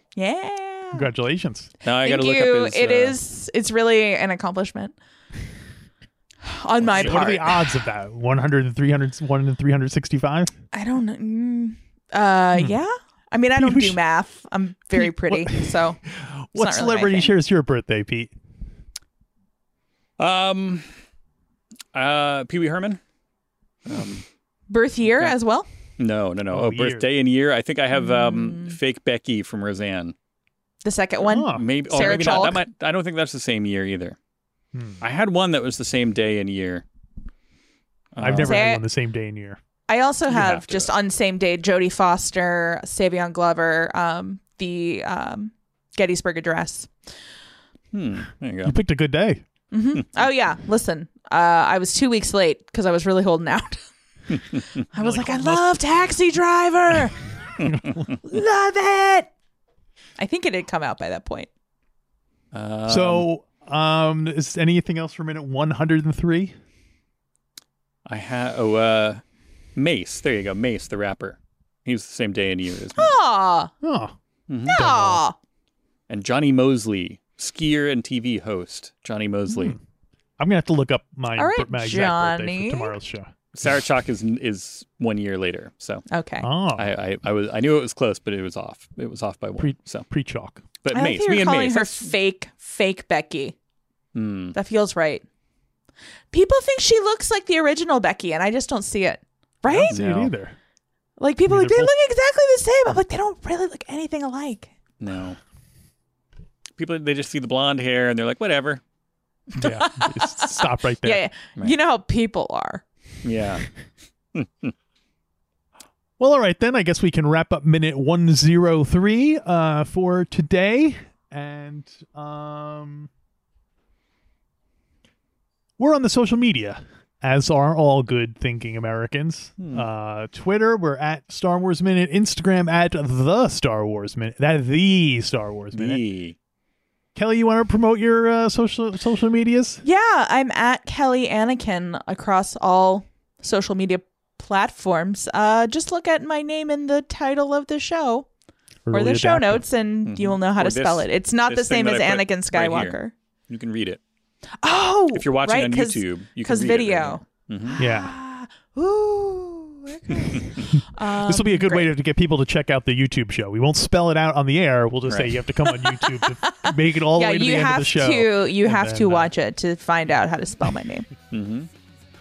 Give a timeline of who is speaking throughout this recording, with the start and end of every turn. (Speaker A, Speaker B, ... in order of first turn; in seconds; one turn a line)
Speaker A: 0.1-1.1
Speaker B: 0.9-1.7
Speaker C: 1.8-3.2
Speaker A: 2.0-4.9
Speaker A: 6.4-7.5
Speaker C: 6.8-7.5
Speaker B: 7.0-10.5
Speaker A: 10.7-16.0
Speaker B: 13.6-14.0
Speaker B: 14.9-18.3
Speaker A: 16.5-17.3
Speaker C: 20.2-20.9
Speaker C: 21.9-23.0
Speaker C: 23.9-24.2
Speaker A: 24.7-25.7
Speaker C: 26.0-30.1
Speaker B: 26.5-27.1
Speaker A: 27.9-28.8
Speaker A: 30.8-32.6
Speaker B: 31.3-32.6
Speaker C: 31.4-34.1
Speaker B: 34.7-35.0
Speaker C: 35.0-36.8
Speaker C: 38.1-38.7
Speaker B: 38.2-39.6
Speaker A: 38.4-38.8
Speaker A: 39.9-46.9
Speaker C: 40.3-40.9
Speaker C: 47.9-48.8
Speaker B: 48.6-49.4
Speaker A: 49.7-53.8
Speaker A: 54.9-57.1
Speaker B: 55.0-55.6
Speaker B: 57.6-58.0
Speaker A: 58.2-59.3
Speaker A: 60.2-61.5
Speaker C: 62.5-63.2
Speaker B: 62.9-66.5
Speaker C: 68.0-69.2
Speaker C: 69.8-73.1
Speaker A: 73.0-73.7
Speaker B: 73.8-74.1
Speaker C: 74.5-74.8
Speaker B: 74.7-75.2
Speaker A: 74.7-75.3
Speaker C: 76.1-79.8
Speaker B: 79.5-79.8
Speaker B: 80.4-83.3
Speaker A: 81.3-83.0
Speaker C: 83.5-86.0
Speaker A: 86.1-86.5
Speaker B: 86.4-86.9
Speaker C: 86.8-90.1
Speaker B: 89.6-90.6
Speaker C: 90.8-92.1
Speaker A: 90.9-93.5
Speaker C: 94.1-94.5
Speaker A: 94.5-95.2
Speaker A: 96.3-100.0
Speaker B: 99.6-100.5
Speaker C: 99.9-100.3
Speaker A: 101.2-104.7
Speaker B: 101.5-101.9
Speaker C: 105.0-105.4
Speaker C: 106.8-108.8
Speaker A: 109.5-112.8
Speaker B: 109.6-111.3
Speaker C: 113.2-113.7
Speaker C: 114.3-114.7
Speaker B: 116.2-123.1
Speaker B: 125.8-136.0
Speaker C: 129.6-129.9
Speaker C: 135.7-136.3
Speaker B: 137.1-139.8
Speaker A: 139.8-148.3
Speaker B: 148.8-149.6
Speaker A: 148.9-153.1
Speaker C: 150.1-153.0
Speaker C: 153.5-154.0
Speaker A: 154.6-161.9
Speaker C: 155.1-157.8
Speaker B: 157.8-158.1
Speaker C: 160.2-160.4
Speaker B: 160.7-169.3
Speaker C: 165.1-165.4
Speaker A: 165.7-171.1
Speaker C: 171.3-171.7